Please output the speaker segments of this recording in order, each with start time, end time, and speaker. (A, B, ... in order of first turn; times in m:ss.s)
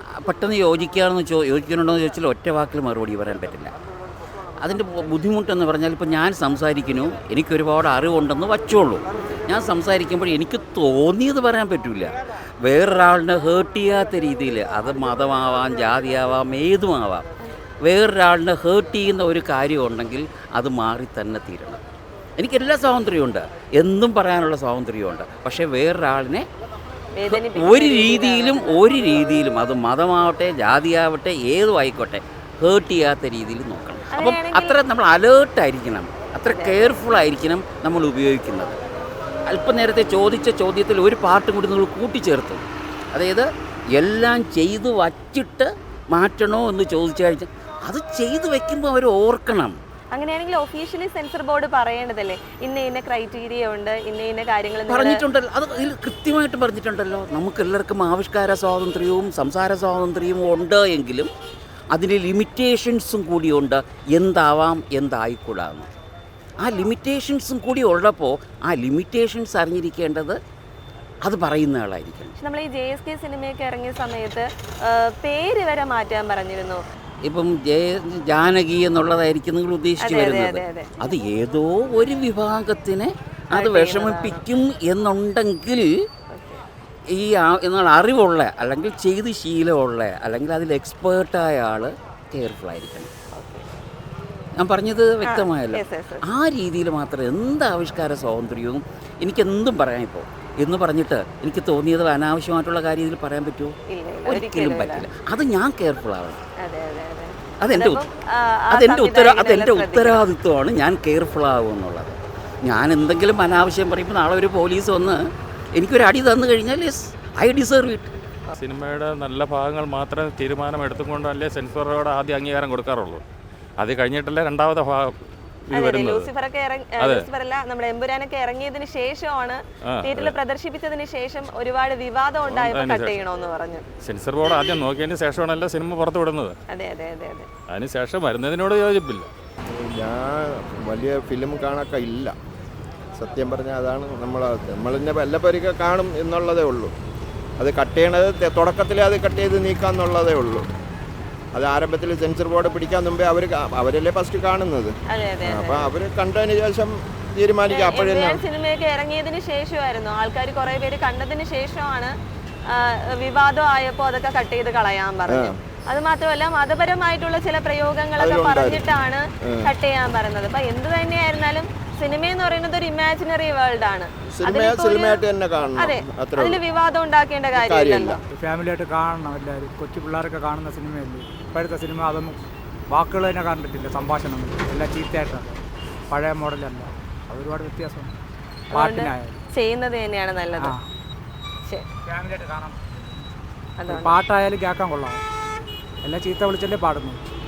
0:00.2-0:03.7 A
0:04.6-0:17.2 A
0:17.8-0:21.8 A
0:22.4-0:26.4 A
0:27.1-0:28.8 B
0:27.3-0:38.8 A
0:34.1-0:34.8 B
0:36.4-0:37.0 B
0:39.5-0:49.8 A
0:50.1-0:55.2 B
0:54.9-1:01.3 A
1:01.9-1:05.9 A
1:06.6-1:10.4 A
1:11.2-1:12.3 A
1:12.4-1:16.8 B
1:17.2-1:25.9 A
1:20.0-1:20.9 B
1:23.5-1:24.4 B
1:26.3-1:26.6 B
1:27.1-1:33.1 A
1:33.3-1:33.7 B
1:34.6-1:43.7 A
1:35.2-1:36.2 B
1:43.9-1:45.0 B
1:44.2-1:46.4 A
1:46.6-1:50.2 B
1:47.6-1:48.0 A
1:48.7-1:55.2 A
1:55.8-1:58.2 A
1:58.6-2:03.2 C
2:03.8-2:05.2 C
2:05.7-2:06.3 C
2:05.7-2:13.8 B
2:07.0-2:07.3 C
2:09.9-2:10.4 C
2:12.5-2:13.2 C
2:14.0-2:16.6 C
2:16.7-2:17.5 B
2:17.7-2:19.3 C
2:19.7-2:22.3 D
2:23.2-2:26.9 D
2:27.6-2:30.6 D
2:31.5-2:34.9 D
2:35.1-2:35.9 B
2:35.4-2:38.4 D
2:37.7-2:42.1 B
2:42.7-2:58.2 B
2:45.3-2:45.6 D
2:48.2-2:48.9 D
2:54.3-2:56.6 D
2:57.5-2:58.2 D
2:58.3-3:05.6 E
3:06.1-3:08.1 E
3:08.7-3:10.8 B
3:08.7-3:09.4 E
3:12.1-3:12.8 E
3:13.8-3:14.2 B
3:13.8-3:15.2 E
3:16.0-3:17.2 E